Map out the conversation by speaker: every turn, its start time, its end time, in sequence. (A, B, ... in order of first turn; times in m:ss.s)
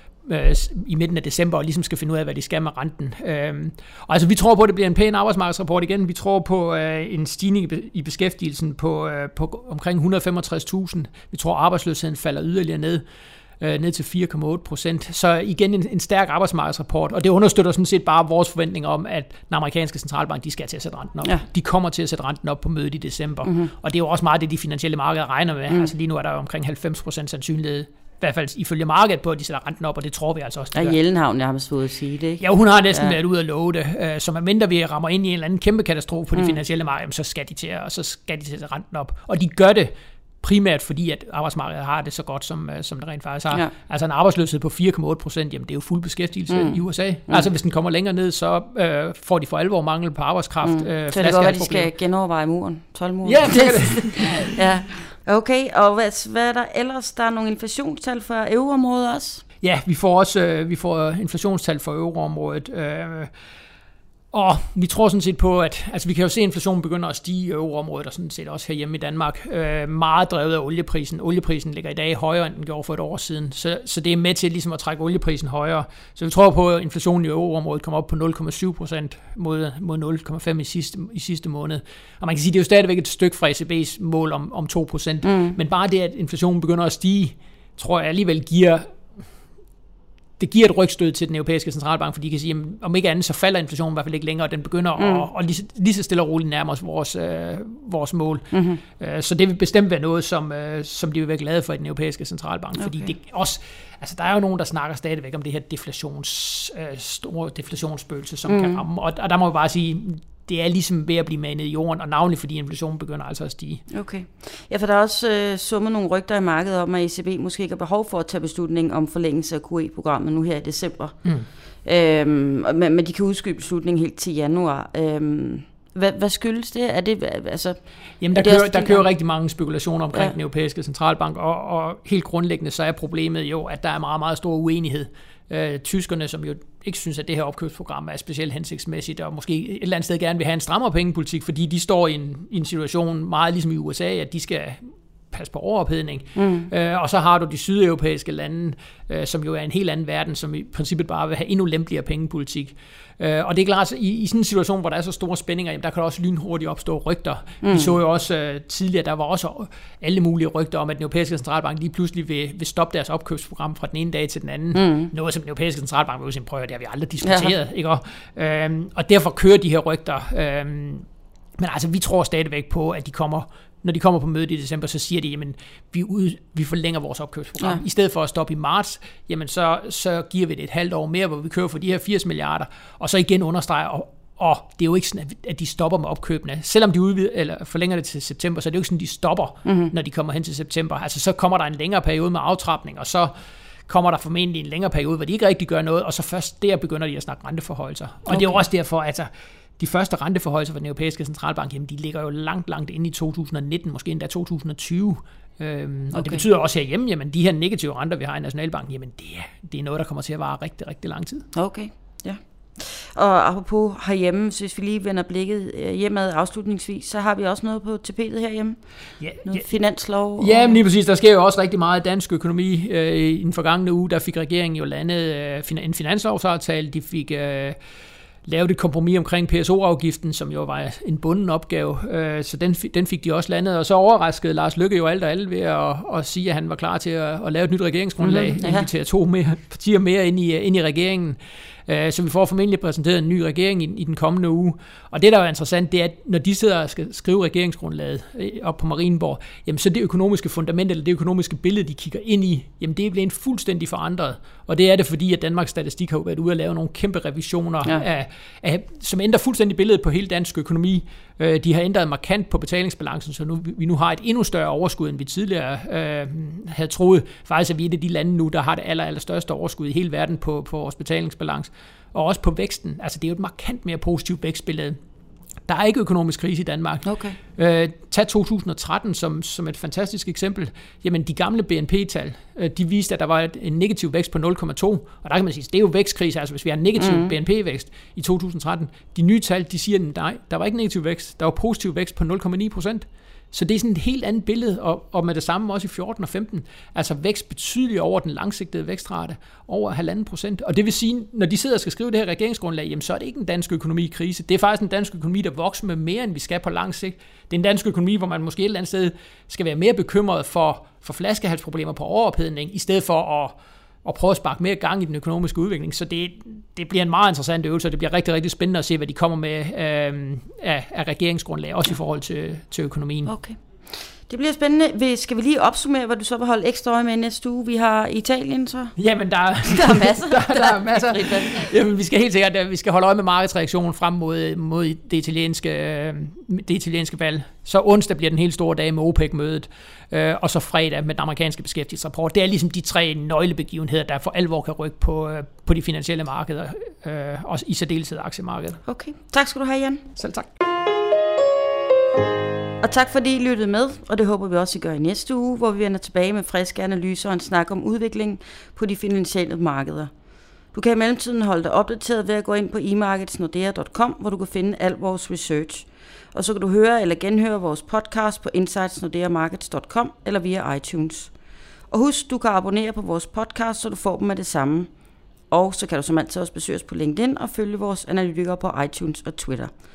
0:00.2-0:13.0 A
0:13.6-0:31.0 A
0:23.4-0:23.7 B
0:30.7-0:33.2 B
0:32.4-0:39.9 A
0:40.4-0:51.9 A
0:46.5-0:47.5 B
0:50.6-0:59.4 B
0:53.2-0:54.6 A
0:59.6-1:03.3 A
1:04.3-1:28.8 A
1:25.2-1:25.6 B
1:30.4-1:53.8 A
1:35.0-1:35.3 B
1:38.5-1:38.8 B
1:42.8-1:43.1 B
1:48.5-1:48.8 B
1:53.9-2:01.2 B
2:01.8-2:09.1 B
2:08.2-2:51.0 A
2:26.4-2:26.7 B
2:37.6-2:38.0 B
2:44.7-2:45.1 B
2:47.2-2:47.5 B
2:51.6-3:13.3 A
3:09.6-3:09.9 B
3:13.9-3:31.4 A
3:18.3-3:18.6 B
3:26.1-3:26.4 B
3:31.6-3:38.8 B
3:39.2-3:39.6 A
3:39.4-3:40.8 B
3:40.4-3:47.8 A
3:48.4-4:35.0 A
3:58.2-3:58.9 B
4:35.7-5:23.3 A
4:37.0-4:37.4 B
4:47.0-4:47.3 B
5:23.3-5:29.0 B
5:29.0-5:48.8 A
5:29.7-5:31.7 B
5:48.9-5:50.0 B
5:50.2-5:50.5 A
5:52.8-6:00.1 B
6:00.7-6:11.3 B
6:11.9-6:14.9 B
6:15.5-6:19.7 B